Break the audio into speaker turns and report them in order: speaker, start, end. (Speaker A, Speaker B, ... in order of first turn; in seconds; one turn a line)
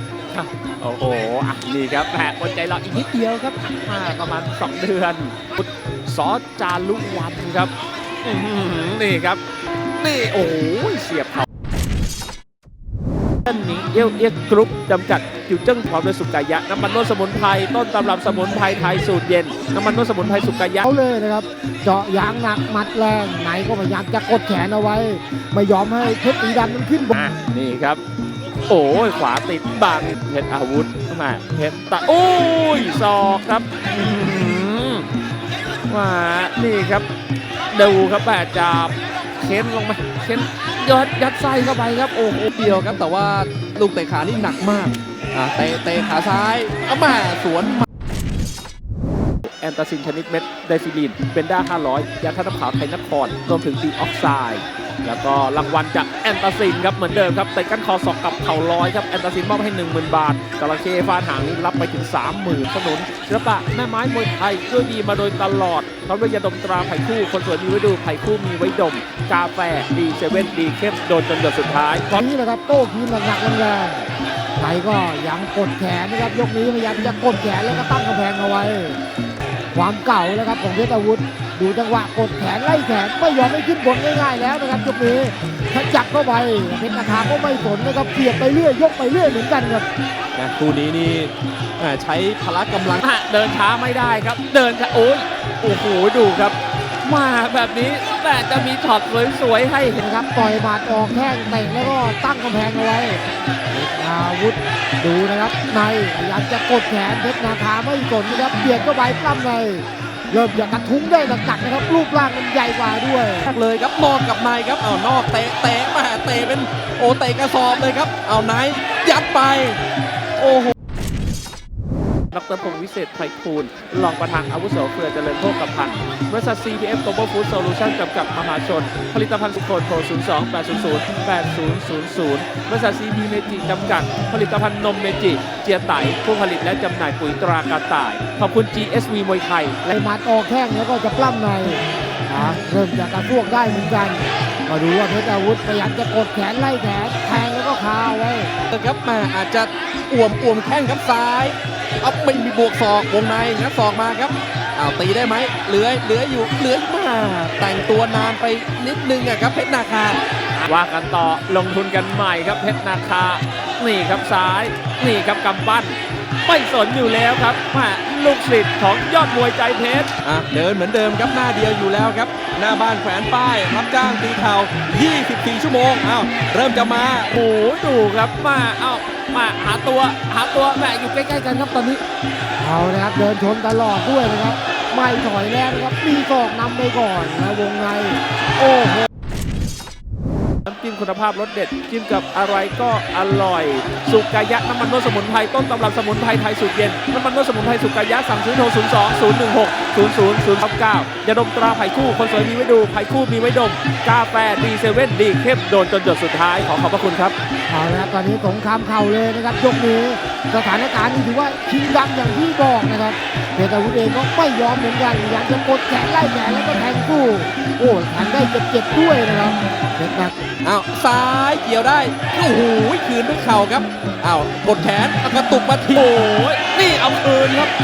Speaker A: 0.3-7.7
Speaker A: 8.2-9.4
Speaker A: 10.0-11.5
Speaker A: 13.5-20.9
Speaker B: 20.8-27.2
Speaker A: 27.1-28.0
Speaker A: 28.7-35.1
Speaker A: 35.9-37.1
Speaker A: 37.7-42.5
Speaker C: 42.5-47.9
Speaker A: 49.6-72.1
Speaker B: 72.1-79.0
Speaker B: 79.7-89.9
Speaker C: 90.4-93.0
Speaker A: 93.0-100.0
Speaker B: 100.0-113.5
Speaker C: 113.5-119.8
Speaker C: 120.4-120.7
Speaker A: 122.3-140.0
Speaker B: 139.9-148.5
Speaker C: 148.7-160.2
Speaker A: 160.6-170.1
Speaker C: 170.2-177.3
Speaker A: 177.3-182.0
Speaker B: 182.6-189.1
Speaker A: 190.7-207.3
Speaker B: 207.7-220.3
Speaker C: 220.6-226.1
Speaker A: 225.9-227.7